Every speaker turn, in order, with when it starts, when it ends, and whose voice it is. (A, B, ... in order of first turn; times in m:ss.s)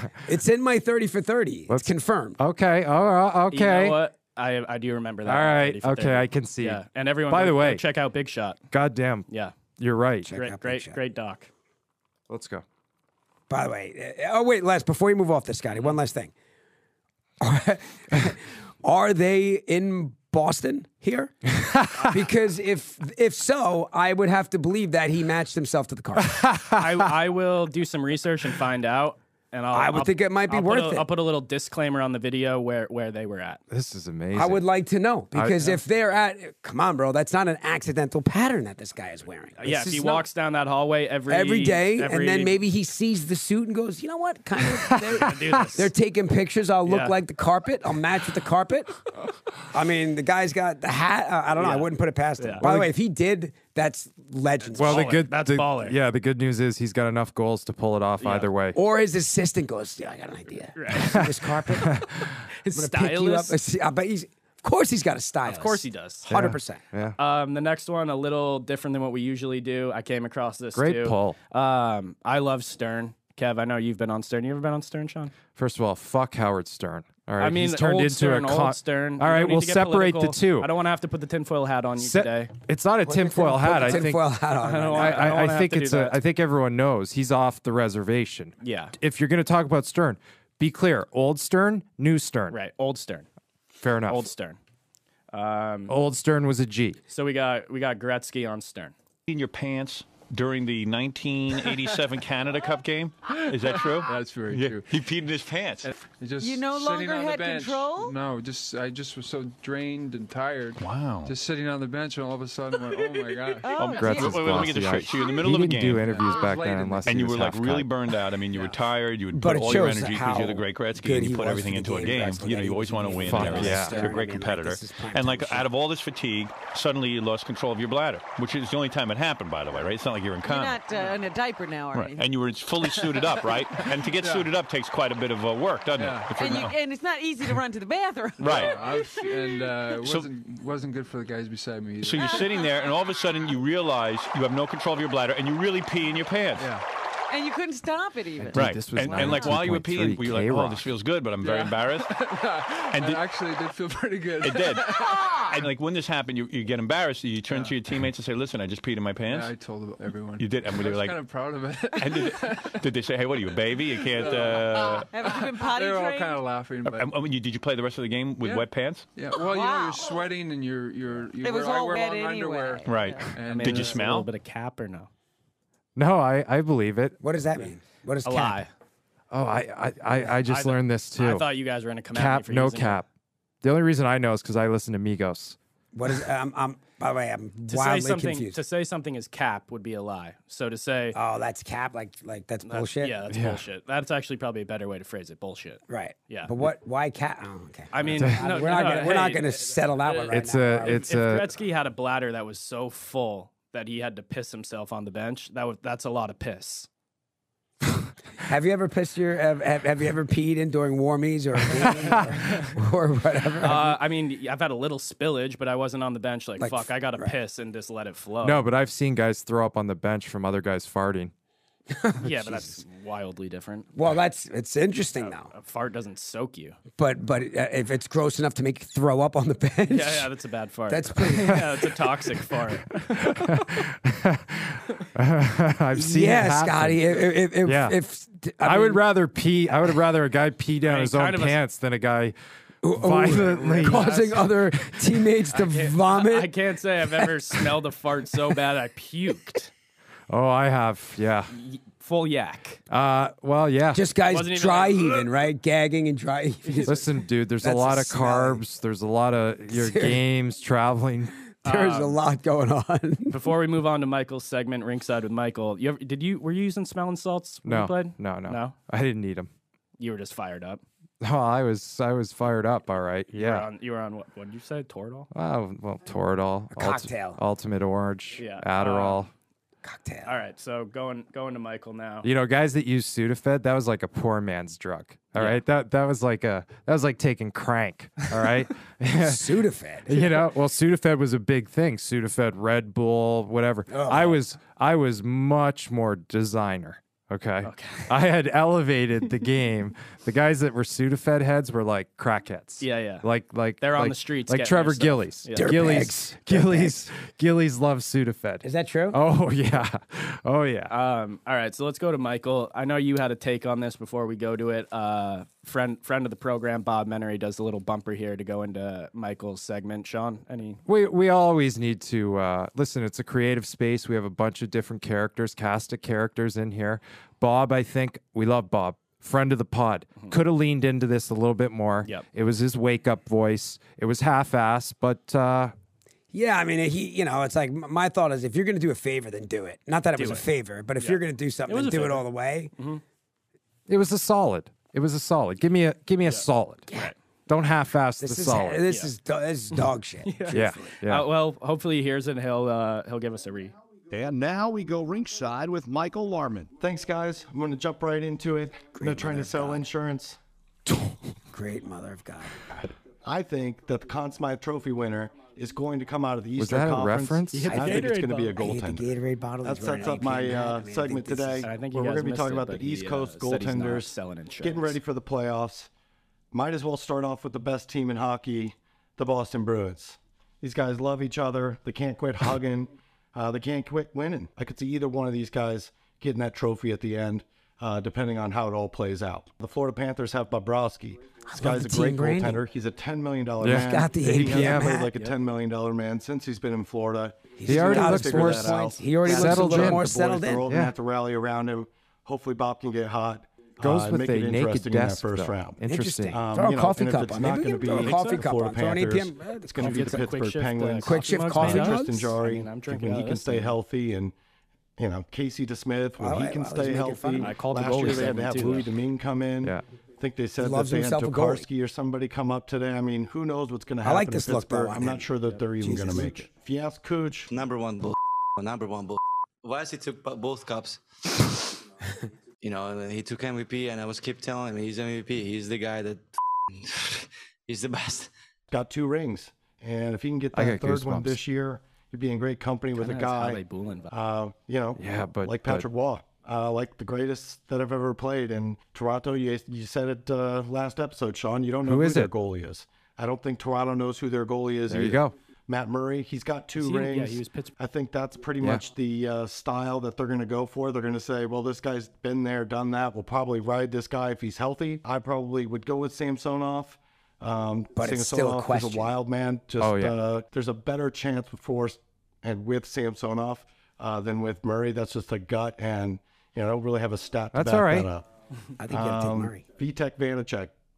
0:00.2-0:02.4 A
0:01.7-0:04.0 B
0:03.5-0:08.6 C
0:05.2-0:07.8 B
0:08.7-0:09.2 B
0:09.3-0:09.5 C
0:09.8-0:10.3 B
0:10.2-0:11.0 A
0:10.3-0:11.5 C
0:12.3-0:12.6 B
0:13.5-0:16.3 A
0:17.4-0:26.4 A
0:26.2-0:26.8 B
0:26.7-0:33.6 C
0:29.7-0:31.1 A
0:33.7-0:34.6 B
0:34.3-0:40.2 A
0:35.3-0:35.8 B
0:39.6-0:42.6 C
0:41.3-0:49.0 A
0:45.1-0:45.9 C
0:46.8-0:47.2 C
0:49.7-0:55.2 A
0:51.6-0:52.6 C
0:52.6-0:52.9 B
0:54.6-0:56.0 C
0:54.7-0:58.8 B
0:58.2-0:58.5 C
0:58.7-1:02.1 A
1:00.7-1:01.2 C
1:00.9-1:02.1 B
1:02.6-1:03.6 C
1:02.6-1:06.8 A
1:05.4-1:06.3 C
1:06.3-1:07.2 B
1:07.2-1:15.3 C
1:10.7-1:11.4 B
1:15.6-1:20.7 B
1:17.4-1:22.5 C
1:22.0-1:24.3 B
1:23.0-1:25.5 A
1:24.6-1:26.2 C
1:24.9-1:32.6 B
1:28.6-1:28.9 C
1:32.5-1:33.3 C
1:33.8-1:34.2 B
1:34.1-1:34.6 C
1:35.3-1:36.0 C
1:35.9-1:37.0 B
1:37.1-1:38.9 C
1:39.3-1:45.9 D
1:43.3-1:44.9 E
1:45.8-1:53.8 E
1:46.4-1:48.1 F
1:50.8-1:51.3 D
1:53.6-1:55.6 F
1:53.8-1:56.1 D
1:53.9-1:57.9 B
1:56.0-1:57.3 E
1:57.0-2:10.8 D
1:58.4-1:58.8 E
1:59.3-2:05.7 A
2:03.2-2:04.2 B
2:10.4-2:12.3 F
2:10.9-2:11.2 E
2:11.9-2:16.8 D
2:12.8-2:14.5 E
2:16.0-2:16.4 E
2:16.3-2:19.2 F
2:18.4-2:18.8 D
2:18.4-2:22.6 E
2:20.0-2:20.3 D
2:22.0-2:26.7 D
2:22.2-2:22.7 F
2:26.6-2:26.8 E
2:27.3-2:29.6 F
2:28.4-2:30.8 B
2:28.5-2:32.1 D
2:31.4-2:35.6 E
2:32.9-2:33.2 D
2:34.4-2:35.0 D
2:35.2-2:35.6 F
2:35.5-2:39.5 D
2:37.5-2:37.8 E
2:39.3-2:42.8 E
2:40.4-2:41.2 D
2:42.0-2:45.1 D
2:43.6-2:47.1 E
2:45.1-2:46.4 F
2:46.8-2:49.1 D
2:48.4-2:54.1 E
2:49.3-2:50.2 F
2:51.4-2:53.3 F
2:52.8-2:54.3 D
2:53.4-2:55.1 C
2:56.0-2:57.2 B
2:57.2-2:58.6 A
2:58.2-2:58.7 C
2:59.3-3:01.5 B
3:00.4-3:03.0 C
3:02.1-3:03.0 B
3:03.6-3:05.6 B
3:05.9-3:08.6 A
3:07.7-3:11.2 C
3:11.1-3:13.2 A
3:12.6-3:16.5 C
3:13.3-3:13.6 B
3:15.9-3:21.0 A
3:17.9-3:26.9 C
3:18.2-3:18.4 B
3:20.3-3:21.5 B
3:28.4-3:34.0 A
3:32.0-3:32.7 C
3:33.6-3:38.6 C
3:36.6-3:37.3 A
3:38.4-3:41.3 B
3:41.9-3:42.8 A
3:42.2-3:43.9 C
3:43.9-3:45.5 A
3:45.2-3:46.8 C
3:47.0-3:50.3 A
3:49.9-3:53.7 C
3:50.9-3:52.0 A
3:53.2-3:58.0 B
3:56.0-3:59.0 A
3:58.6-4:02.3 B
4:00.8-4:01.6 C
4:02.8-4:06.5 A
4:02.8-4:05.0 B
4:03.7-4:04.5 C
4:05.5-4:09.7 C
4:10.3-4:11.5 B
4:11.5-4:12.8 C
4:12.9-4:14.0 B
4:13.9-4:18.6 A
4:14.3-4:15.3 C
4:16.6-4:16.9 C
4:16.8-4:21.3 B
4:19.7-4:20.2 A
4:21.6-4:23.4 A
4:21.6-4:22.2 C
4:23.3-4:28.7 C
4:27.6-4:29.5 B
4:30.0-4:30.8 C
4:31.2-4:33.7 B
4:33.3-4:35.3 C
4:35.3-4:39.3 B
4:36.7-4:37.4 A
4:38.4-4:39.2 C
4:39.8-4:40.3 A
4:40.2-4:42.3 C
4:42.2-5:10.9 B
4:45.4-4:45.6 C
4:49.2-4:50.2 A
4:53.9-4:54.4 A
4:57.6-4:58.1 C
5:02.8-5:03.2 C
5:03.8-5:05.8 C
5:05.6-5:07.0 A
5:08.6-5:09.2 A
5:10.9-5:20.8 C
5:20.8-5:35.7 B
5:36.3-5:42.7 A
5:40.2-5:40.5 C
5:41.0-5:42.2 C
5:42.8-5:43.0 C
5:43.9-5:46.9 B
5:46.2-5:47.1 C
5:47.5-5:48.8 B
5:48.2-5:51.0 A
5:50.2-5:53.7 C
5:50.5-5:51.3 B
5:54.1-5:56.7 G
5:56.8-6:00.4 H
5:59.0-5:59.8 A
6:00.9-6:01.3 B
6:01.5-6:02.7 A
6:03.2-6:09.1 H
6:06.6-6:07.7 B
6:07.5-6:08.6 C
6:07.7-6:11.8 A
6:09.6-6:15.9 H
6:11.6-6:15.0 C
6:16.5-6:54.3 H
6:31.5-6:32.6 A
6:33.6-6:35.0 B
6:33.7-6:35.1 A
6:37.6-6:40.7 A
6:37.6-6:38.7 B
6:39.2-6:40.0 B
6:40.6-6:40.9 B
6:43.8-6:46.4 B
6:45.8-6:50.3 A
6:47.9-6:48.4 C
6:49.8-6:53.7 C
6:51.0-6:52.3 A
6:55.0-7:07.5 H
6:56.2-6:57.6 A
6:57.4-6:58.9 C
7:00.6-7:01.7 A
7:04.0-7:06.4 A
7:07.5-7:11.8 I
7:12.6-7:18.3 I
7:18.7-7:58.2 H
7:20.5-7:21.4 B
7:23.0-7:24.1 C
7:25.0-7:25.8 B
7:31.8-7:32.3 B
7:34.9-7:35.3 B
7:36.8-7:37.7 C
7:48.0-7:49.1 A
7:49.8-7:50.2 B
7:57.5-7:58.1 B
7:58.8-7:59.6 A
7:58.9-8:00.7 H